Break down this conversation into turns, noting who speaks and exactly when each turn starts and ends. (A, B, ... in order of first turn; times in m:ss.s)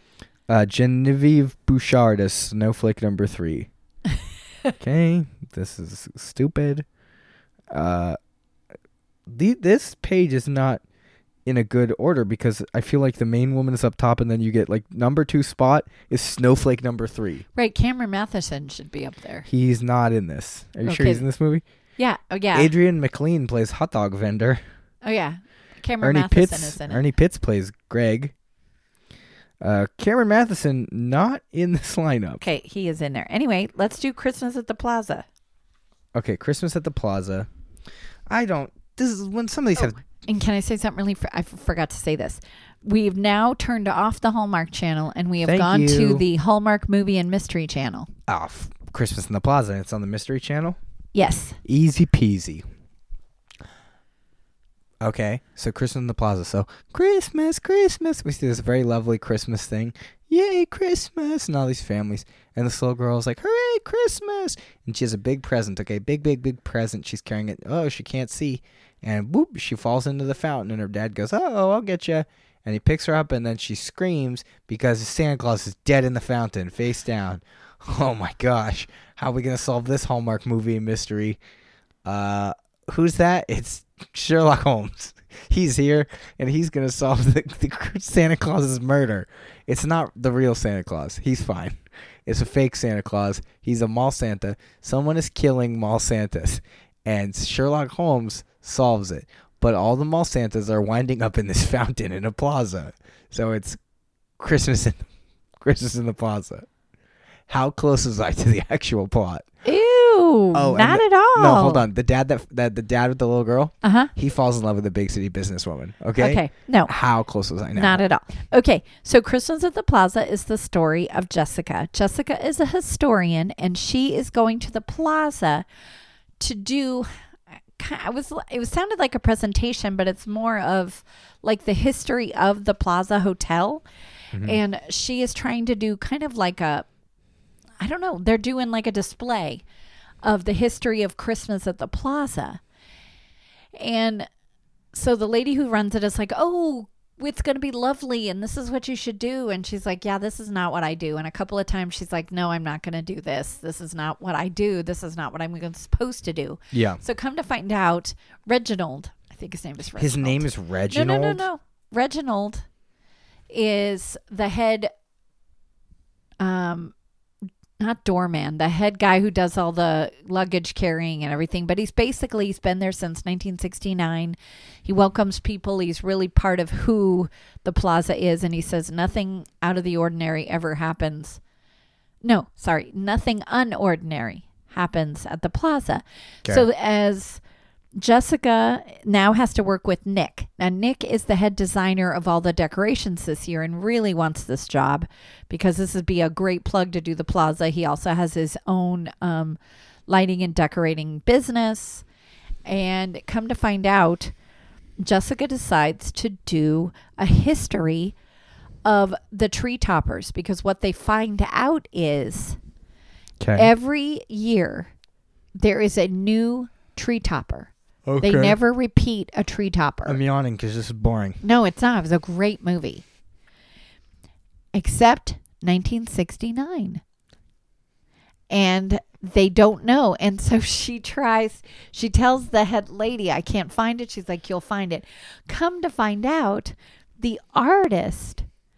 0:00.5-0:03.7 A
0:04.8-0:06.9 A
0:07.7-0:08.2 A
0:09.3-0:10.8 A
0:11.5-0:17.5 A
0:17.6-0:19.5 B
0:19.5-0:21.6 A
0:20.8-0:21.2 B
0:22.0-0:22.7 B
0:22.5-0:24.6 A
0:25.0-0:27.0 B
0:26.0-0:28.3 A
0:29.6-0:32.4 A
0:32.4-0:35.3 B
0:36.1-0:37.5 A
0:38.3-0:40.0 A
0:39.8-0:48.1 B
0:45.4-0:46.2 A
0:48.3-0:50.8 A
0:51.1-0:51.6 B
0:51.6-0:52.6 A
0:55.0-1:21.4 A
1:22.0-1:43.8 A
1:44.4-1:45.1 A
1:45.6-1:46.7 A
1:47.5-1:49.5 A
1:49.6-1:51.8 B
1:50.5-1:58.0 A
1:53.8-1:54.1 B
1:56.2-1:56.9 B
1:57.7-2:05.7 B
2:06.4-2:07.2 B
2:07.8-2:13.8 B
2:14.3-2:14.6 A
2:14.4-2:16.9 B
2:17.8-2:19.6 B
2:20.2-2:22.6 B
2:23.8-2:24.3 B
2:24.9-2:42.7 B
2:36.7-2:37.0 A
2:40.0-2:41.5 A
2:43.5-2:44.9 B
2:46.4-2:46.9 B
2:47.8-3:01.4 B
3:02.2-3:07.4 B
3:08.0-3:22.0 B
3:22.7-3:24.3 B
3:25.0-3:28.2 B
3:28.8-3:32.6 B
3:33.4-3:33.7 A
3:33.6-3:34.9 B
3:35.6-3:40.2 B
3:38.1-3:38.6 A
3:40.0-3:41.4 A
3:41.4-3:43.0 B
3:44.7-3:47.0 B
3:48.5-3:58.5 B